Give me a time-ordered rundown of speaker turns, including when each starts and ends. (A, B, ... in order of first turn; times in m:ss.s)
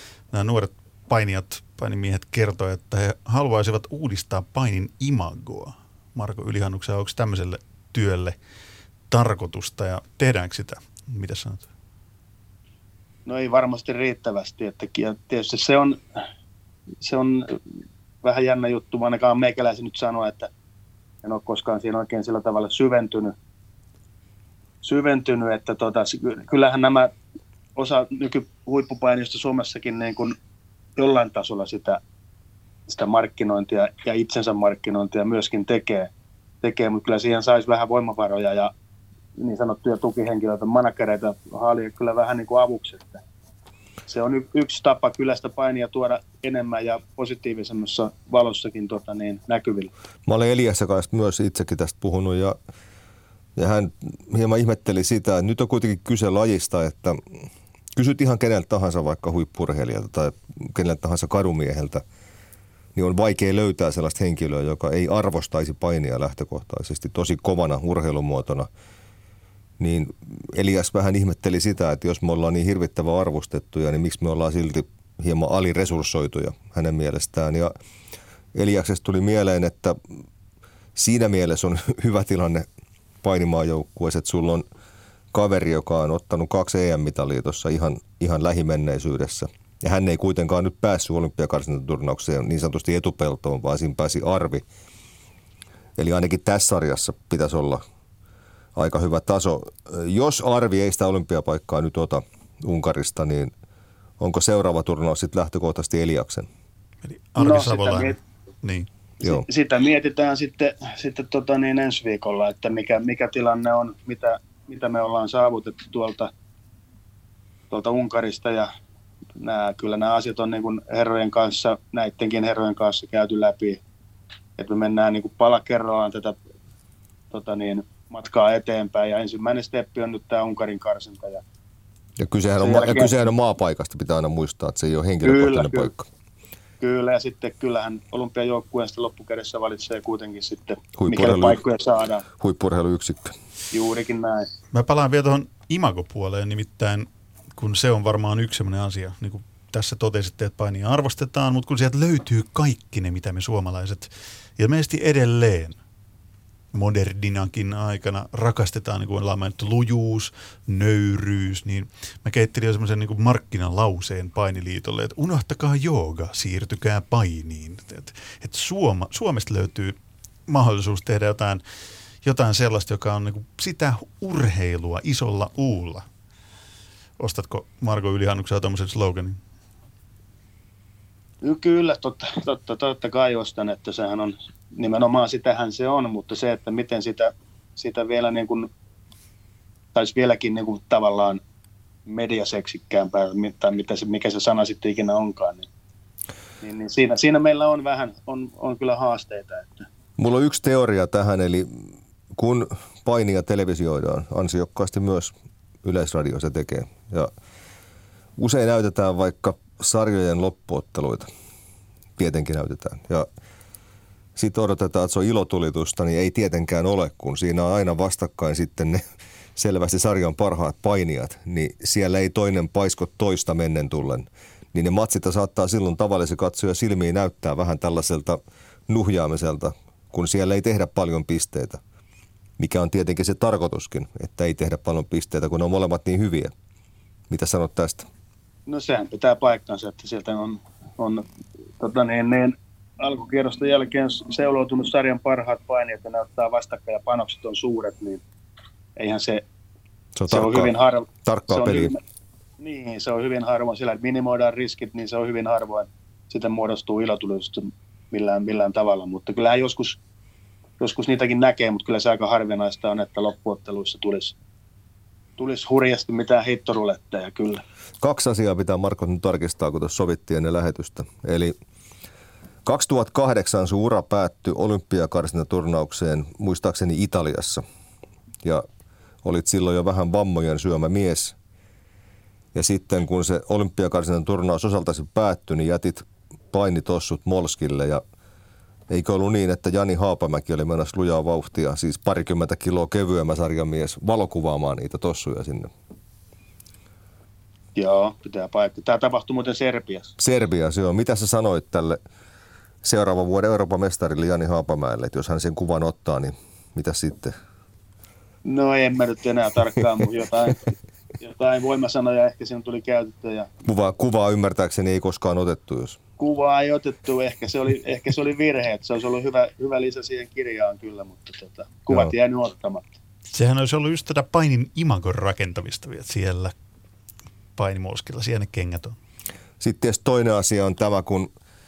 0:00.3-0:08.4 A
0:09.1-0:11.7 A
0:13.2-0:16.0 B
0:17.0-0:17.6 B
0:18.2-0:20.5 B
0:21.2-0:23.3 B
0:24.8-0:27.1 B
0:27.8-0:30.3 B
0:31.0-0:32.0 B
0:32.9-0:36.1 B
0:36.6-0:38.7 B
0:39.4-0:43.2 B
0:44.1-0:49.9 B
0:50.2-0:52.6 C
0:53.6-0:57.2 C
0:58.0-1:02.0 C
1:02.9-1:08.7 C
1:09.8-1:17.7 C
1:18.5-1:20.0 C
1:20.9-1:22.7 C
1:23.2-1:24.6 C
1:25.3-1:34.6 C
1:36.0-1:37.8 C
1:38.7-1:43.5 C
1:44.2-1:46.5 C
1:47.0-1:48.9 A
1:47.4-1:48.2 B
1:49.2-1:56.3 B
1:57.7-1:58.7 B
1:59.4-2:03.8 B
2:04.6-2:06.4 B
2:07.3-2:11.4 B
2:12.2-2:16.1 C
2:12.6-2:13.2 B
2:15.2-2:15.9 B
2:16.8-2:22.2 B
2:21.0-2:21.6 C
2:22.4-2:23.3 C
2:23.7-2:24.5 B
2:24.7-2:35.8 A
2:36.7-2:50.0 A
2:50.5-2:51.6 A
2:52.2-2:56.1 A
2:57.2-2:59.4 A
3:01.4-3:08.7 B
3:09.9-3:11.4 B
3:12.1-3:15.7 B
3:16.6-3:19.9 B
3:20.2-3:27.3 C
3:28.4-3:31.3 C
3:32.2-3:33.3 C
3:34.4-3:39.0 C
3:39.5-3:51.8 C
3:52.6-3:56.5 C
3:57.3-3:58.1 C
3:58.7-4:01.2 B
4:01.8-4:08.2 B
4:09.0-4:09.4 B
4:10.1-4:10.7 C
4:10.3-4:12.0 B
4:11.2-4:11.9 C
4:12.6-4:20.0 B
4:20.8-4:24.3 B
4:25.4-4:27.6 B
4:28.0-4:31.5 C
4:32.6-4:37.6 C
4:39.2-4:41.4 C
4:42.5-4:48.0 C
4:48.9-4:55.7 C
4:57.8-5:00.1 B
5:00.2-5:02.0 C
5:02.8-5:07.3 C
5:08.4-5:13.5 B
5:13.6-5:16.0 C
5:16.2-5:22.8 B
5:23.3-5:26.5 A
5:27.6-5:29.0 A
5:29.6-5:31.3 C